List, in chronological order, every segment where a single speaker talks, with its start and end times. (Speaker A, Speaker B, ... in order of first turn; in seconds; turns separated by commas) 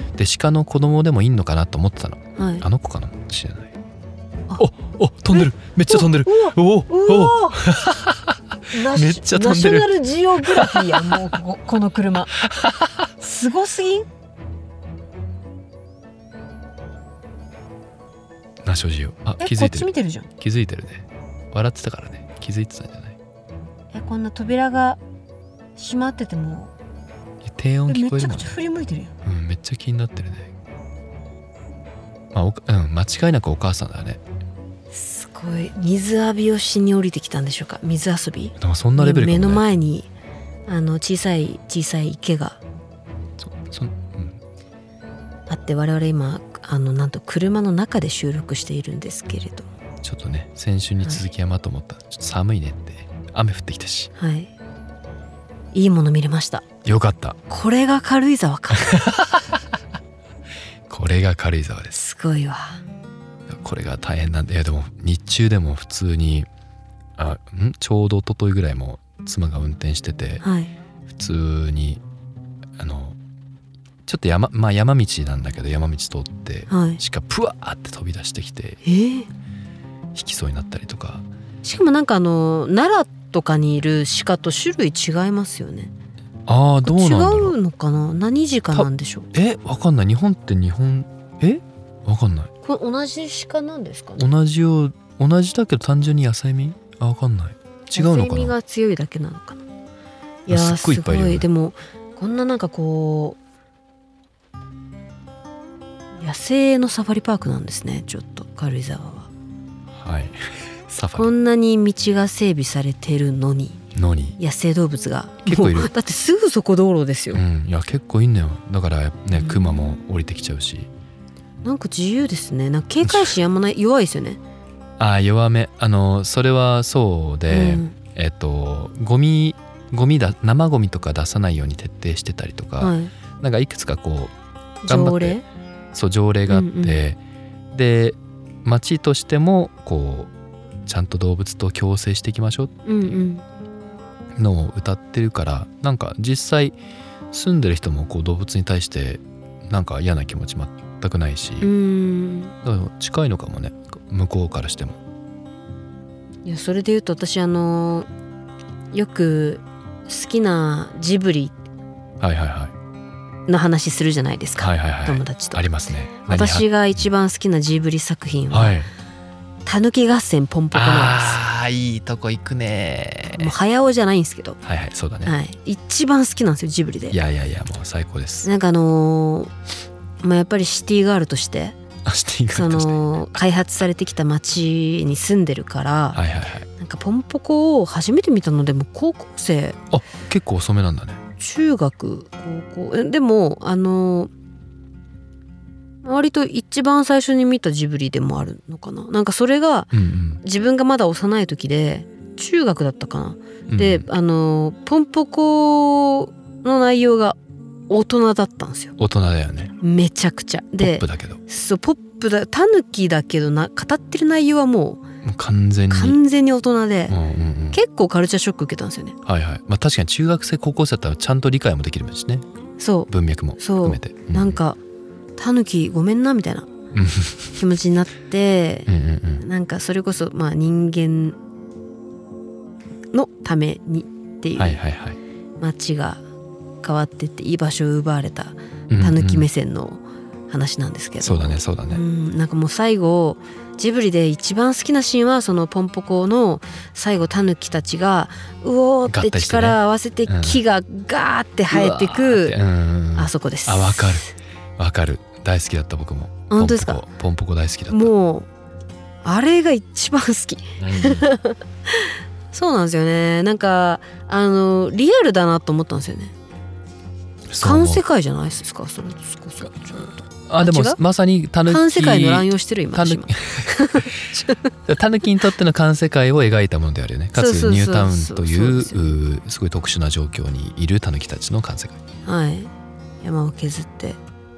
Speaker A: 0.1-3.7, Speaker B: 2.4-2.6, Speaker A: 4.6-11.2, Speaker B: 5.3-7.9, Speaker B: 8.7-12.3, Speaker A: 12.4-12.9, Speaker B: 13.2-14.1, Speaker A: 18.6-23.2, Speaker B: 19.4-20.3, Speaker B: 23.9-25.0, Speaker B: 25.8-26.7, Speaker A: 27.4-28.5, Speaker B: 27.9-29.1, Speaker A: 29.2-30.5, Speaker A: 32.3-34.2, Speaker B: 34.9-40.1, Speaker A: 38.6-39.7, Speaker B: 40.7-42.6, Speaker A: 43.4-44.4, Speaker B: 45.5-49.7, Speaker A: 50.0-54.1, Speaker B: 54.1-54.5, Speaker B: 55.7-56.6, Speaker A: 56.8-57.4, Speaker B: 57.5-59.1, Speaker A: 58.9-59.3, Speaker A: 60.9-62.0, Speaker B: 61.9-62.8, Speaker A: 63.5-66.5, Speaker A: 67.2-70.4, Speaker B: 70.4-70.7, Speaker A: 71.1-72.0, Speaker A: 72.8-73.2, Speaker A: 74.0-78.8, Speaker B: 76.7-77.0, Speaker B: 78.8-79.3, Speaker A: 80.1-81.2, Speaker B: 81.6-85.9, Speaker A: 86.5-87.5, Speaker B: 86.8-89.3, Speaker A: 88.7-92.5, Speaker B: 92.6-94.2, Speaker A: 94.2-98.5, Speaker B: 97.9-99.6, Speaker B: 100.5-103.4, Speaker A: 100.5-101.5, Speaker B: 106.2-109.3, Speaker A: 109.9-111.3, Speaker B: 111.1-113.8, Speaker A: 113.9-114.4, Speaker B: 114.4-117.4, Speaker A: 115.4-115.9, Speaker A: 117.3-120.9, Speaker B: 121.6-124.4, Speaker A: 123.0-123.3, Speaker A: 125.0-134.3, Speaker B: 127.5-127.9, Speaker B: 132.8-133.1, Speaker B: 134.8-135.4, Speaker A: 134.8-135.4, Speaker A: 135.9-137.2, Speaker B: 136.5-137.0, Speaker A: 137.7-140.3, Speaker A: 140.8-142.7, Speaker B: 142.8-143.4, Speaker A: 144.3-146.8, Speaker A: 147.3-151.7, Speaker B: 151.6-152.5, Speaker A: 152.6-155.0, Speaker B: 156.4-158.1, Speaker B: 158.9-161.5, Speaker A: 162.2-162.7, Speaker B: 163.5-165.7, Speaker A: 164.6-166.7, Speaker B: 166.2-168.7, Speaker A: 168.5-168.9, Speaker B: 169.7-171.4, Speaker A: 170.7-173.5, Speaker B: 173.3-174.6, Speaker A: 174.6-175.3, Speaker B: 175.2-177.2, Speaker A: 177.1-178.5, Speaker B: 178.4-179.5, Speaker B: 180.2-181.8, Speaker A: 182.0-183.2, Speaker B: 182.5-186.2, Speaker A: 186.1-186.7, Speaker B: 186.8-189.8, Speaker A: 189.9-191.2, Speaker B: 191.4-194.3, Speaker B: 196.0-199.9, Speaker A: 199.9-200.4, Speaker B: 200.4-207.4, Speaker A: 203.7-204.1, Speaker B: 207.9-208.9, Speaker A: 209.0-209.7, Speaker B: 209.8-215.0, Speaker A: 210.8-211.4, Speaker A: 215.2-216.2, Speaker B: 215.9-217.2, Speaker A: 217.1-217.8, Speaker B: 217.7-219.2, Speaker A: 219.2-222.4, Speaker B: 222.8-224.8, Speaker A: 223.1-224.6, Speaker B: 225.4-226.7, Speaker A: 226.9-227.6, Speaker B: 227.6-231.3, Speaker A: 228.9-229.4, Speaker B: 233.1-234.8, Speaker A: 234.6-235.2, Speaker B: 235.6-236.2, Speaker B: 236.8-252.6, Speaker A: 238.9-239.4, Speaker A: 241.2-242.0, Speaker A: 249.1-250.6, Speaker A: 251.7-258.1, Speaker B: 253.1-254.3, Speaker B: 256.5-257.0, Speaker B: 257.9-258.5, Speaker B: 259.2-266.3, Speaker A: 260.8-261.3, Speaker A: 267.5-268.0, Speaker B: 267.6-271.0, Speaker A: 270.4-282.0, Speaker B: 271.6-274.7, Speaker B: 277.3-279.0, Speaker B: 282.2-282.7, Speaker B: 283.2-284.2